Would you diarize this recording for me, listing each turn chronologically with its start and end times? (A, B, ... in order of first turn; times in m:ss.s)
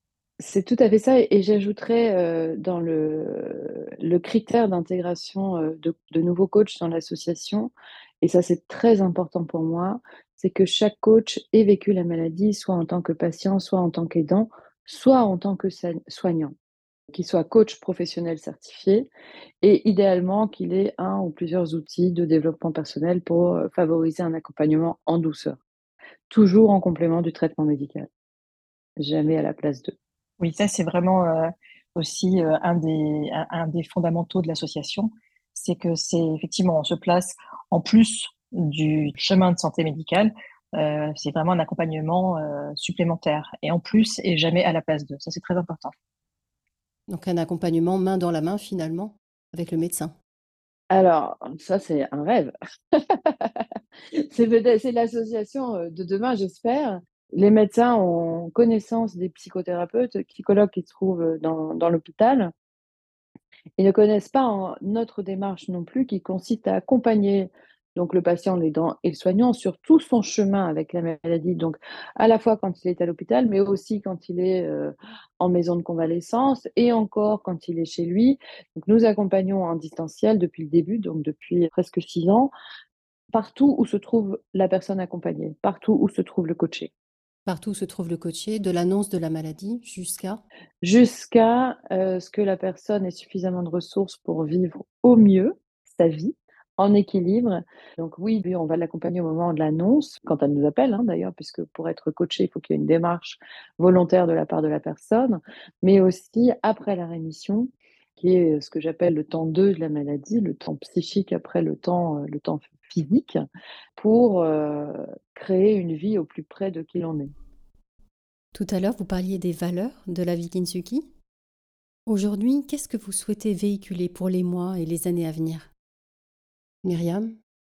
0:00.4-0:16.5 A
0:17.1-0:19.1 A
0:19.6-0:25.6 A
0:26.3-0:28.1 A
0:29.0-0:29.9 A
0:30.4-0:45.9 B
0:47.1-0:50.1 C
0:50.9-0:53.6 A
0:54.1-1:02.5 A
1:03.8-1:22.5 A
1:23.3-1:26.9 A
1:27.4-1:30.4 C
1:30.8-1:53.4 A
1:54.0-1:57.3 A
1:58.5-2:01.1 C
2:02.1-2:05.7 C
2:06.8-2:07.4 C